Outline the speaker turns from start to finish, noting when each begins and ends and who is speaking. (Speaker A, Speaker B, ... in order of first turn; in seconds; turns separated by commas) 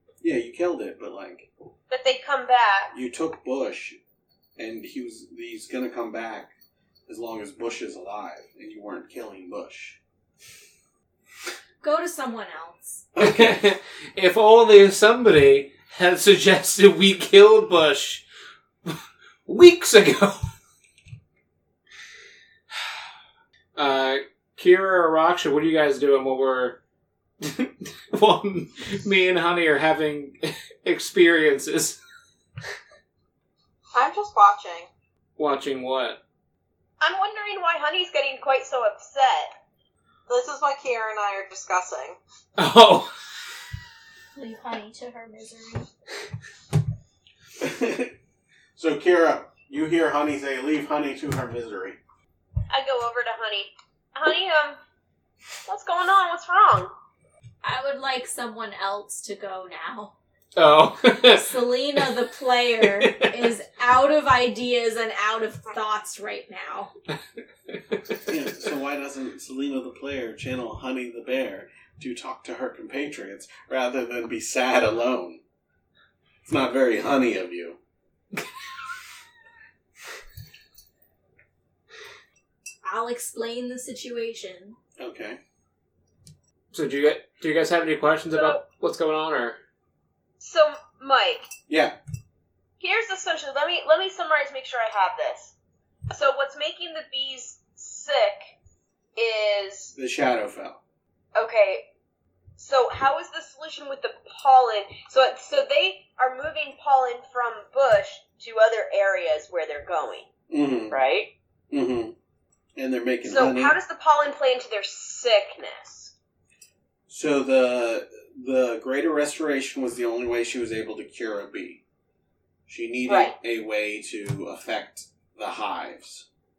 Speaker A: 0.2-1.5, Speaker B: 1.9-2.9, Speaker A: 2.9-4.0, Speaker A: 4.6-6.5, Speaker A: 7.1-10.0, Speaker C: 11.8-13.1, Speaker A: 13.2-13.6, Speaker D: 13.2-18.2, Speaker D: 18.9-20.5, Speaker D: 23.8-26.8, Speaker D: 27.4-32.0, Speaker E: 33.9-34.9, Speaker D: 35.4-36.2, Speaker B: 37.0-39.5, Speaker E: 40.3-42.2, Speaker D: 42.6-43.1, Speaker C: 44.4-45.9, Speaker A: 47.6-48.1, Speaker A: 48.8-52.0, Speaker B: 52.7-54.8, Speaker B: 55.7-56.9, Speaker C: 57.6-60.1, Speaker D: 60.6-62.1, Speaker C: 61.3-66.9, Speaker D: 62.8-63.5, Speaker D: 68.0-68.3, Speaker A: 68.3-75.4, Speaker A: 76.4-77.8, Speaker C: 82.8-84.8, Speaker A: 85.0-85.4, Speaker D: 86.7-89.6, Speaker B: 88.3-88.6, Speaker B: 90.4-91.5, Speaker A: 91.7-92.0, Speaker B: 92.8-95.5, Speaker B: 96.1-98.5, Speaker B: 99.2-99.9, Speaker A: 99.9-100.8, Speaker B: 101.3-101.9, Speaker B: 102.6-110.3, Speaker A: 110.5-111.0, Speaker B: 110.9-111.3, Speaker A: 111.7-112.2, Speaker A: 112.8-113.8, Speaker B: 113.2-116.1, Speaker A: 117.1-121.8, Speaker A: 122.7-126.3, Speaker B: 123.1-123.3